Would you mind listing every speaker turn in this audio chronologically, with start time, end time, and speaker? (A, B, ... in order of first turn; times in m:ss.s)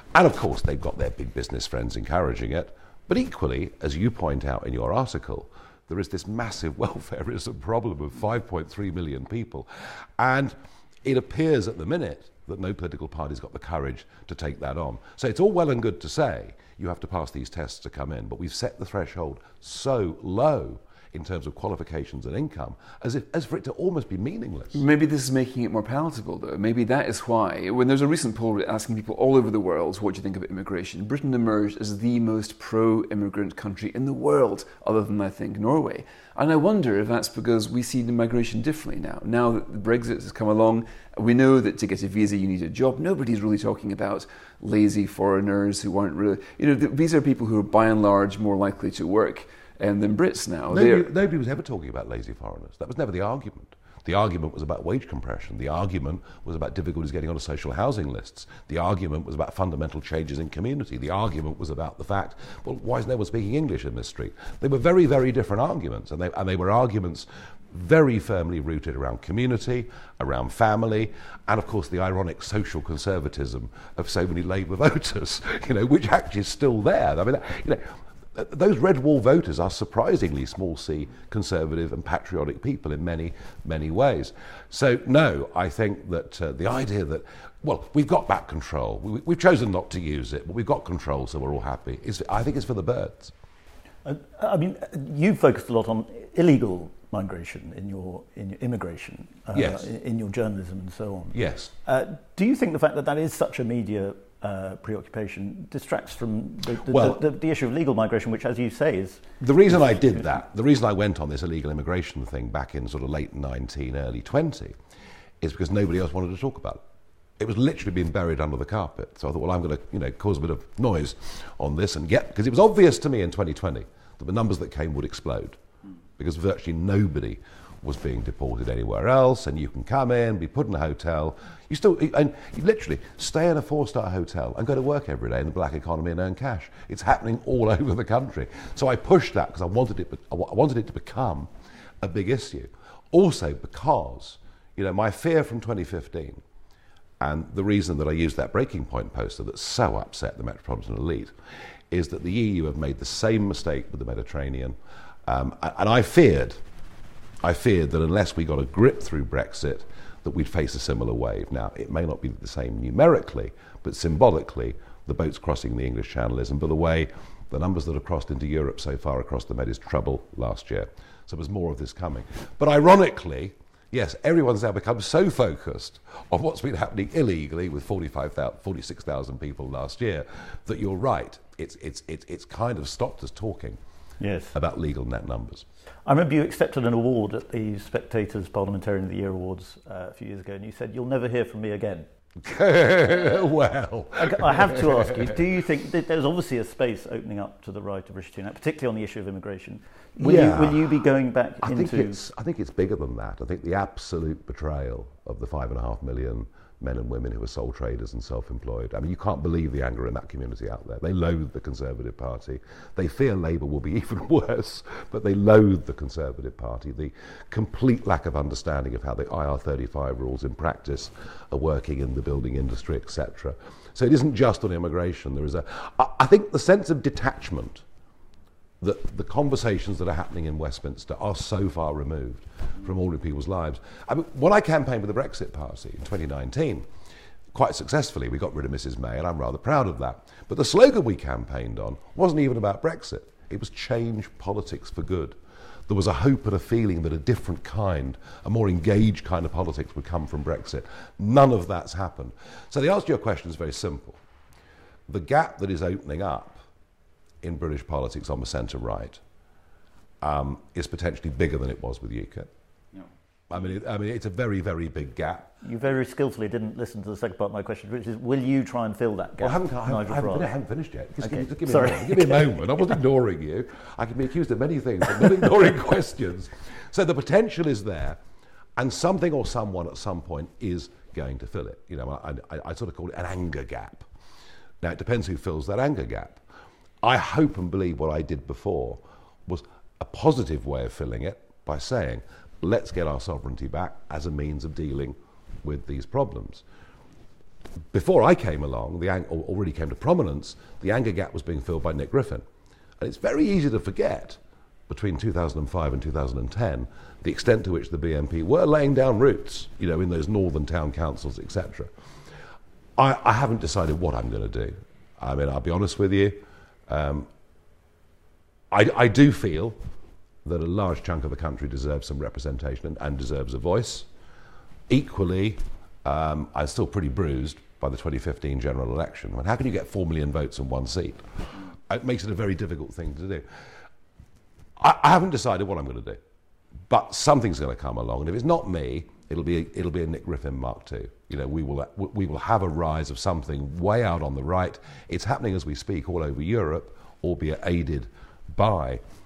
0:00.1-0:24.8 A
0:24.7-0:51.1 B
0:50.7-1:33.3 A
1:34.0-1:50.2 C
1:39.5-1:39.9 A
1:41.3-1:41.7 A
1:46.8-1:47.2 A
1:49.4-1:54.8 A
1:55.4-1:56.8 A
1:57.4-2:05.6 A
2:06.2-2:26.4 A
2:27.2-2:31.3 A
2:31.9-2:36.6 A
2:37.4-3:03.8 A
3:04.2-3:04.5 C
3:04.5-3:05.6 A
3:06.0-3:12.1 C
3:12.4-3:15.4 A
3:14.3-3:22.2 C
3:20.2-3:21.0 A
3:21.6-3:47.8 A
3:48.8-3:56.9 A
3:57.5-4:05.4 A
4:05.9-4:14.2 A
4:15.1-4:16.6 A
4:17.4-4:19.2 A
4:20.2-4:22.5 A
4:23.5-4:25.5 A
4:25.6-4:30.5 C
4:29.4-4:38.2 A
4:31.2-4:32.6 C
4:38.8-4:44.1 A
4:44.8-4:46.4 A
4:47.0-4:56.6 A
4:57.9-5:02.4 A
5:03.0-5:11.9 A
5:13.0-5:17.3 A
5:18.7-5:19.8 A
5:20.4-5:24.1 A
5:24.9-5:33.5 A
5:34.8-5:36.2 A
5:36.9-5:49.0 A